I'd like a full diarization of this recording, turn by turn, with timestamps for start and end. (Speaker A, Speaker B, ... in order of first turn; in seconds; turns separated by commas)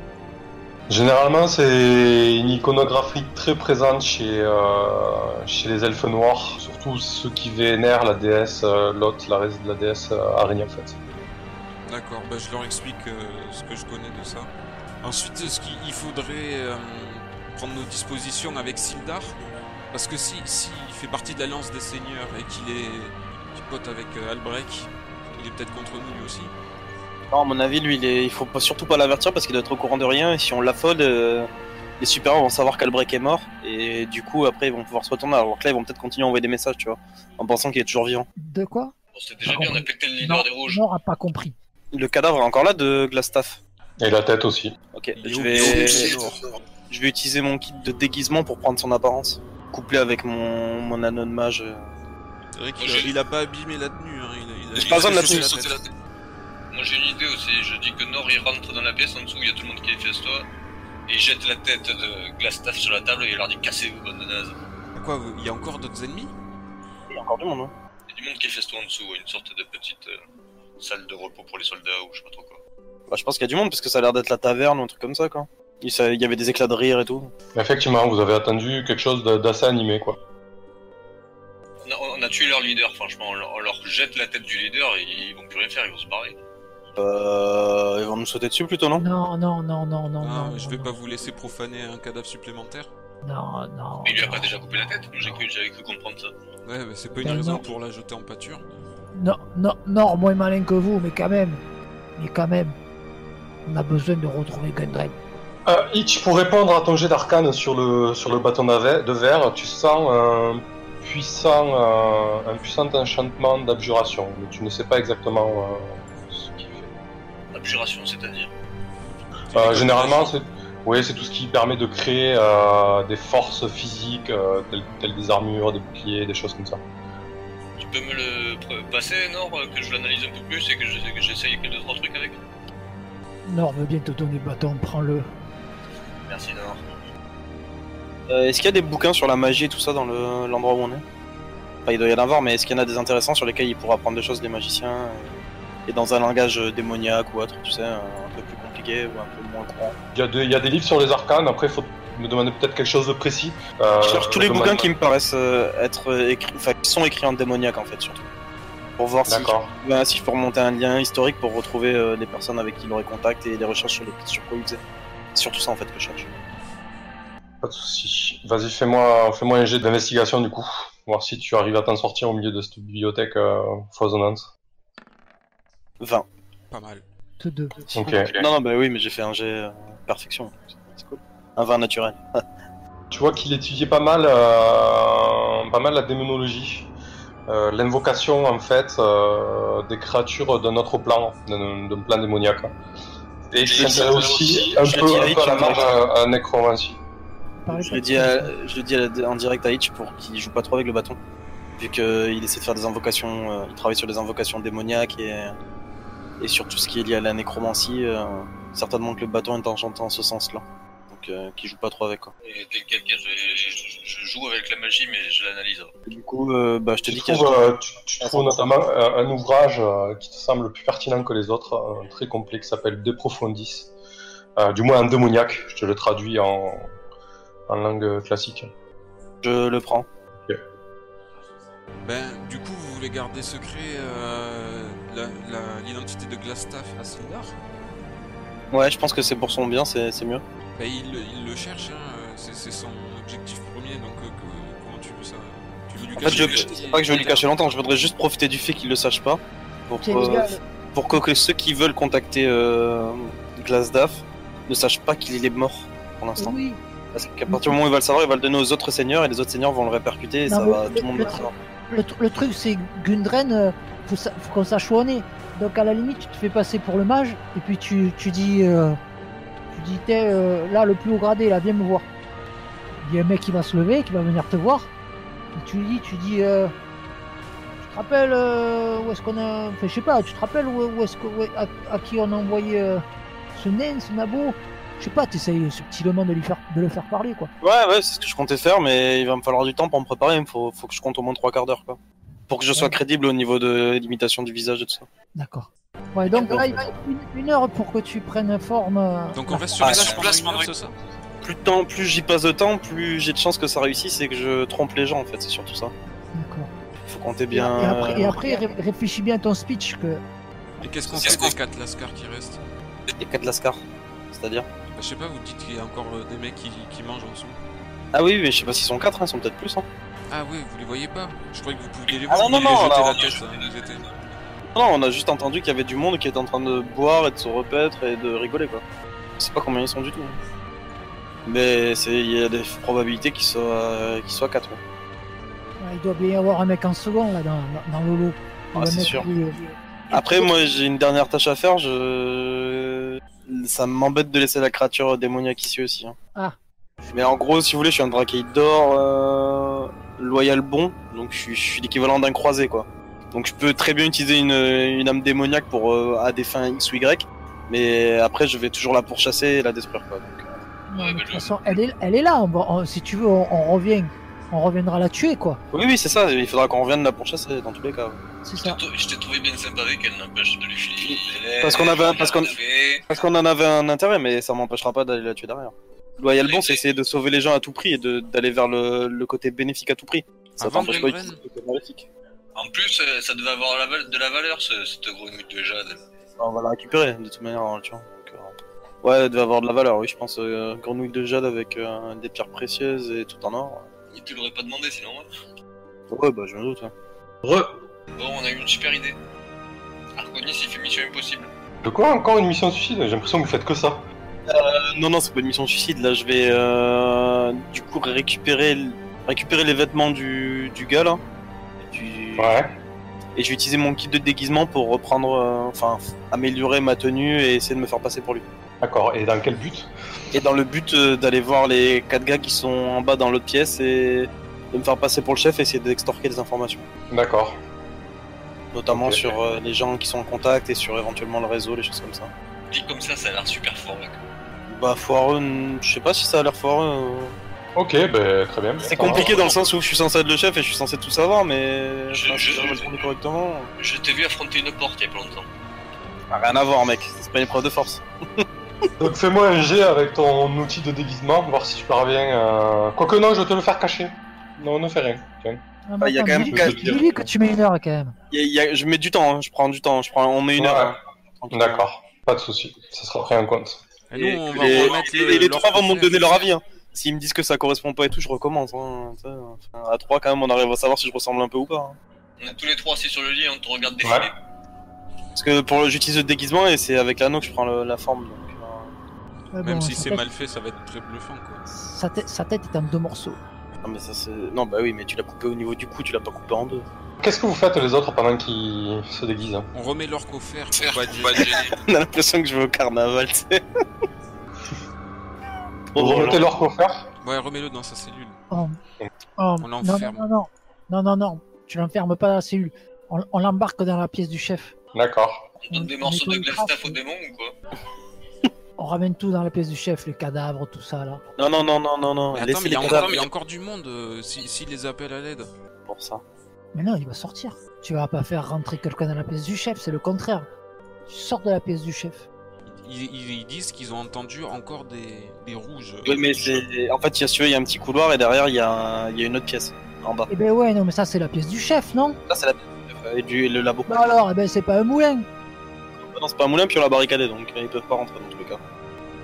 Speaker A: 0.9-11.0, Speaker B: 11.8-14.5, Speaker B: 15.0-19.4, Speaker B: 19.9-26.5, Speaker C: 27.3-31.5, Speaker C: 32.0-38.3, Speaker D: 38.4-41.6, Speaker E: 39.1-40.8, Speaker C: 41.9-43.6, Speaker A: 44.0-44.8, Speaker C: 44.9-46.3, Speaker B: 45.2-46.4, Speaker E: 45.6-46.0, Speaker C: 46.9-51.9, Speaker B: 52.5-55.8, Speaker E: 52.8-53.1, Speaker E: 54.8-55.9, Speaker C: 54.8-55.5, Speaker E: 56.7-60.5, Speaker E: 61.1-64.6, Speaker B: 65.0-66.3, Speaker C: 67.1-67.7, Speaker E: 68.1-70.2, Speaker E: 70.8-72.6, Speaker C: 73.1-77.3, Speaker A: 77.5-80.2, Speaker E: 81.8-86.4, Speaker C: 87.0-89.0, Speaker D: 89.0-90.9, Speaker B: 90.2-92.9, Speaker D: 93.2-95.4, Speaker E: 94.0-96.3, Speaker B: 96.7-98.6, Speaker D: 97.2-97.6, Speaker D: 99.2-101.6, Speaker D: 102.2-102.8, Speaker D: 103.7-105.2, Speaker A: 105.7-116.9, Speaker E: 117.5-118.5, Speaker B: 119.5-120.3, Speaker A: 119.5-126.8, Speaker E: 127.8-132.4, Speaker D: 133.5-135.3, Speaker E: 136.3-136.8, Speaker C: 138.3-141.0, Speaker C: 141.9-145.3, Speaker C: 145.9-150.0, Speaker A: 150.1-154.9, Speaker C: 154.0-158.3, Speaker C: 159.0-164.8, Speaker A: 159.3-159.7, Speaker C: 165.3-166.3, Speaker A: 167.6-174.5, Speaker C: 176.0-176.3, Speaker B: 176.7-177.1, Speaker D: 177.4-177.8, Speaker A: 177.9-178.4, Speaker C: 178.0-182.4, Speaker A: 183.1-186.9, Speaker A: 187.5-192.7, Speaker A: 193.5-197.0, Speaker E: 193.6-195.2, Speaker C: 193.7-195.9, Speaker D: 197.6-198.5, Speaker C: 197.7-201.2, Speaker C: 201.8-205.6, Speaker C: 206.4-212.3, Speaker E: 212.4-215.9, Speaker C: 216.1-217.7, Speaker A: 217.1-223.9, Speaker C: 218.2-218.7, Speaker A: 224.6-226.9, Speaker A: 227.7-228.7, Speaker C: 229.4-230.1, Speaker B: 232.0-237.6, Speaker C: 238.7-240.4, Speaker B: 240.8-247.5, Speaker C: 246.2-256.6, Speaker E: 246.2-246.6, Speaker D: 250.0-250.6, Speaker D: 256.4-256.8, Speaker C: 257.1-261.5, Speaker D: 257.5-257.8, Speaker D: 260.5-269.0, Speaker D: 269.7-272.1, Speaker D: 273.0-274.9, Speaker D: 275.6-276.7, Speaker D: 277.8-287.5, Speaker C: 287.6-295.1, Speaker D: 295.4-299.6, Speaker C: 296.3-296.9, Speaker B: 299.3-300.9, Speaker E: 299.8-300.7, Speaker C: 299.8-300.3, Speaker C: 301.4-305.9, Speaker D: 306.3-306.7, Speaker C: 307.1-308.4, Speaker D: 307.5-310.2, Speaker B: 310.8-312.6, Speaker E: 311.2-311.5, Speaker C: 313.2-314.7, Speaker B: 314.9-317.6, Speaker C: 318.1-319.9, Speaker B: 320.3-324.1, Speaker C: 322.3-323.4, Speaker E: 322.6-323.6, Speaker C: 324.7-328.8, Speaker C: 329.4-330.4, Speaker C: 331.5-334.8, Speaker D: 335.8-340.5, Speaker C: 338.8-339.3, Speaker C: 340.1-346.2, Speaker D: 346.4-347.1, Speaker C: 347.1-360.6, Speaker D: 360.9-365.6, Speaker E: 360.9-361.8, Speaker C: 365.7-368.2, Speaker D: 368.4-368.8, Speaker E: 368.6-373.1, Speaker C: 371.1-372.6, Speaker C: 373.1-382.1, Speaker E: 376.4-376.8, Speaker B: 380.6-381.4, Speaker E: 382.6-386.0, Speaker C: 386.4-388.5, Speaker C: 389.0-393.9, Speaker E: 394.1-395.3, Speaker C: 396.1-396.9, Speaker A: 397.4-397.7, Speaker E: 398.1-399.2, Speaker E: 400.2-401.5, Speaker A: 401.8-404.1, Speaker C: 404.5-411.2, Speaker C: 411.8-412.5, Speaker A: 412.4-412.7, Speaker C: 413.4-418.4, Speaker A: 418.8-419.9, Speaker C: 420.3-426.9, Speaker A: 427.1-427.6, Speaker C: 428.7-432.3, Speaker A: 428.9-429.3, Speaker E: 432.7-434.2, Speaker C: 434.7-437.4, Speaker A: 437.8-439.4, Speaker C: 438.9-443.7, Speaker E: 438.9-439.7, Speaker E: 442.1-443.1, Speaker E: 443.8-445.5, Speaker C: 446.3-448.5, Speaker A: 449.0-455.6, Speaker D: 455.9-458.1, Speaker C: 456.0-457.1, Speaker A: 456.5-457.2, Speaker C: 458.3-461.8, Speaker A: 460.6-461.0, Speaker A: 461.5-463.8, Speaker B: 464.1-466.4, Speaker C: 464.2-472.0, Speaker E: 464.6-465.1, Speaker E: 472.4-474.3, Speaker A: 474.0-474.3, Speaker C: 475.4-478.9, Speaker D: 479.5-480.3, Speaker B: 479.6-481.6, Speaker D: 481.7-483.4, Speaker C: 483.8-486.9, Speaker A: 487.2-489.7, Speaker B: 489.7-491.6, Speaker E: 490.9-491.7, Speaker C: 491.2-493.6, Speaker C: 495.9-496.4, Speaker A: 495.9-497.1, Speaker B: 497.2-498.4, Speaker D: 498.5-498.8, Speaker D: 499.4-504.7, Speaker B: 499.6-500.3, Speaker A: 504.9-505.5, Speaker E: 505.6-507.5, Speaker D: 505.7-507.0, Speaker D: 508.8-511.2, Speaker C: 511.4-513.2, Speaker B: 512.3-515.5, Speaker E: 512.8-513.3, Speaker C: 515.9-516.2, Speaker D: 516.7-520.5, Speaker D: 521.1-522.3, Speaker B: 522.7-526.7, Speaker C: 526.0-530.3, Speaker D: 530.3-532.2, Speaker C: 532.3-534.1, Speaker D: 533.9-535.3, Speaker C: 536.0-538.6